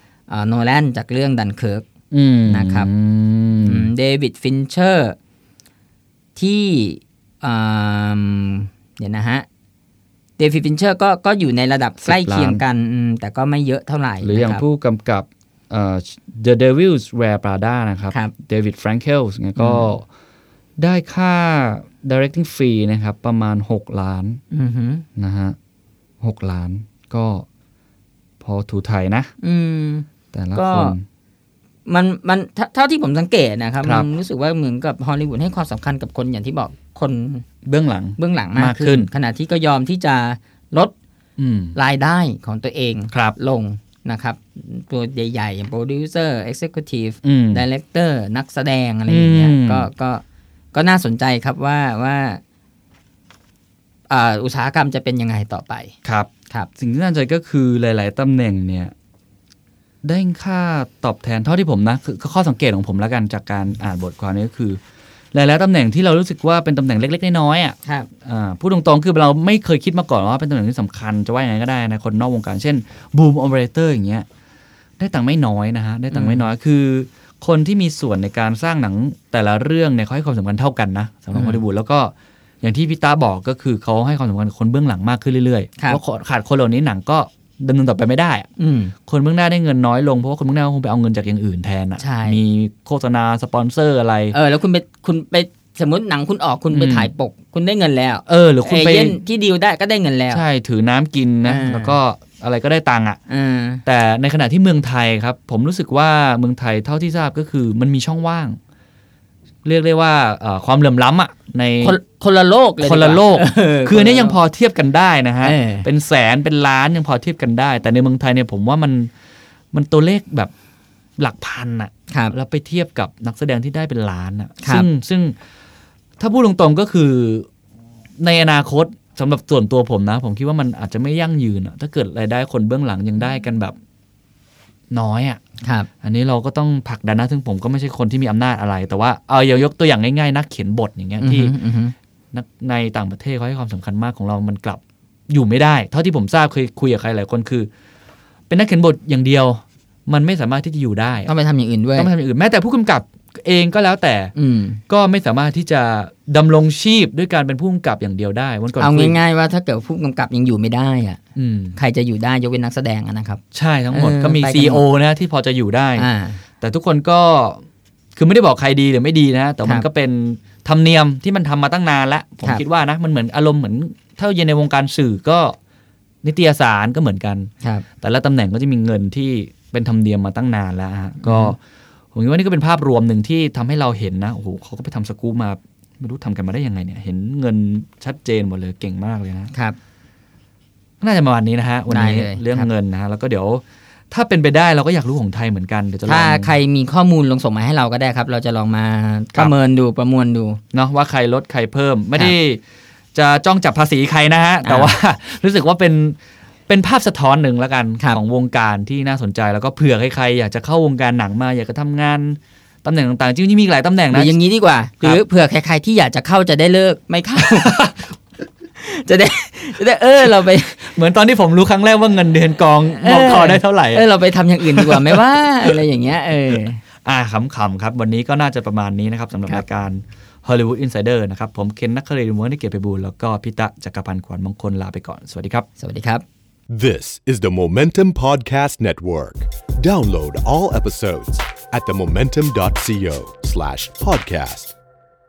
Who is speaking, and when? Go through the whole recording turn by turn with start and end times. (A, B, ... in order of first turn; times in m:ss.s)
0:00.3-0:01.8 A
0:02.1-0:03.9 B
0:02.5-0:02.9 A
0:03.6-0:05.2 A
0:06.4-0:09.4 A
0:10.4-0:14.6 A
0:12.0-0:12.6 B
0:14.2-0:20.0 B
0:19.6-0:19.9 A
0:20.8-0:24.4 B
0:24.5-0:25.0 A
0:25.2-0:25.6 B
0:26.2-0:27.4 B
0:28.4-0:29.3 B
0:29.4-0:30.9 A
0:30.3-0:31.0 B
0:31.8-0:37.4 A
0:33.8-0:34.1 B
0:37.6-0:39.1 B
0:38.2-0:40.9 A
0:41.4-0:41.8 B
0:41.7-0:52.4 A
0:43.1-0:43.4 B
0:47.2-0:47.6 B
0:49.1-0:49.9 B
0:54.1-0:55.9 A
0:56.0-0:58.9 B
1:00.0-1:04.8 B
1:05.3-1:14.2 B
1:15.0-1:28.5 B
1:16.1-1:16.4 A
1:21.3-1:21.6 A
1:28.6-1:28.9 A
1:29.1-1:34.4 B
1:32.0-1:32.4 A
1:34.3-1:40.4 A
1:36.7-1:37.1 B
1:38.3-1:39.2 B
1:40.3-1:43.2 B
1:41.4-1:42.0 A
1:43.3-1:43.8 A
1:43.8-1:48.6 B
1:49.6-1:52.0 B
1:51.8-1:54.4 A
1:52.8-1:59.1 B
1:55.4-1:55.9 A
1:59.7-2:00.5 B
2:01.2-2:05.3 B
2:06.2-2:07.5 B
2:08.2-2:13.8 B
2:14.9-2:15.4 B
2:15.6-2:15.9 A
2:16.0-2:21.5 B
2:21.2-2:21.9 A
2:22.3-2:27.7 B
2:28.5-2:31.3 B
2:31.3-2:32.1 A
2:32.0-2:34.3 B
2:34.4-2:34.8 A
2:34.9-2:39.2 B
2:38.8-2:41.2 A
2:41.3-2:41.8 B
2:41.7-2:44.8 A
2:43.5-2:46.1 B
2:46.0-2:46.4 A
2:46.6-2:47.6 B
2:48.1-2:55.6 B
2:56.2-3:01.6 B
3:01.2-3:01.5 A
3:02.1-3:09.5 B
3:11.0-3:16.5 B
3:11.9-3:12.7 A
3:16.1-3:20.6 A
3:20.7-3:22.6 B
3:23.1-3:34.4 B
3:24.6-3:24.9 A
3:34.1-3:37.8 A
3:37.4-3:38.1 B
3:38.8-3:40.8 A
3:40.8-3:44.0 B
3:43.0-3:46.8 A
3:44.7-3:45.8 B
3:47.0-3:55.7 B
3:55.8-3:56.2 A
3:56.7-4:04.7 C